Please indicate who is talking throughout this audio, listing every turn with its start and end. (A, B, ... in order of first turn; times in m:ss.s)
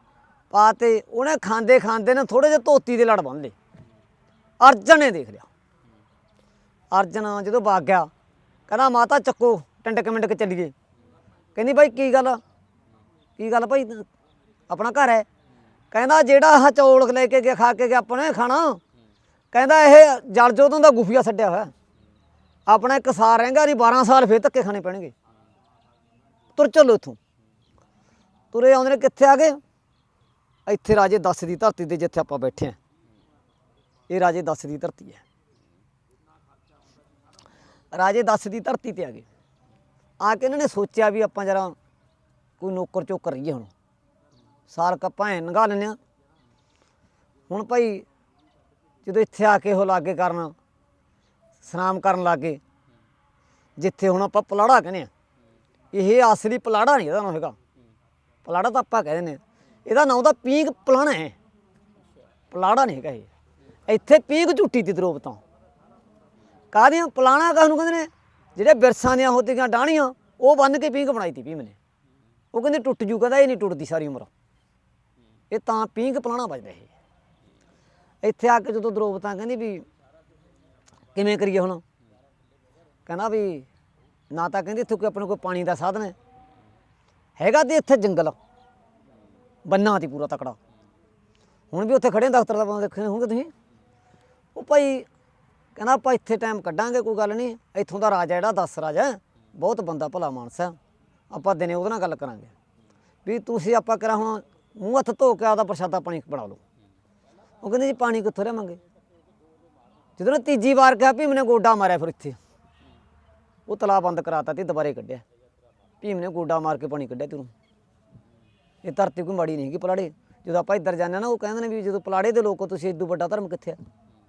0:00.5-0:03.5 A
0:04.6-0:05.5 A
0:06.9-0:08.1 A
0:08.7-0:10.7 A
0:11.6-0:12.4 A
0:13.4-0:14.0 A
0:14.7-0:15.2 A
0:15.9-0:18.8 A
0:19.5-0:21.7 A
0:22.7-0:25.1 A
0:26.6-0:27.2 A
0:28.5-0:29.6 A
0:30.6-0:32.8 A
0:34.1-0:35.2 A
0:37.9-0:39.2 A
0:40.2-0:41.8 A
0:42.6-0:43.7 A
0:44.7-0:46.0 A
0:47.5-0:48.0 A
0:49.0-0:50.5 A
0:51.6-0:52.6 A
0:53.8-0:55.1 A
0:55.9-0:57.6 A
0:58.4-1:01.3 A
1:02.5-1:03.3 A
1:03.9-1:05.4 A
1:06.7-1:11.8 A
1:12.5-1:14.3 A
1:15.5-1:16.9 A
1:18.2-1:19.8 A
1:21.1-1:21.8 A
1:23.1-1:23.7 A
1:24.3-1:26.1 A
1:27.4-1:28.4 A
1:29.6-1:30.6 A
1:31.7-1:33.5 A
1:34.5-1:35.1 A
1:35.8-1:40.8 A
1:41.3-1:42.5 A
1:43.2-1:46.6 A
1:47.6-1:48.8 A
1:50.2-1:52.4 A
1:53.7-1:55.2 A
1:56.0-1:57.5 A
1:58.8-2:03.8 A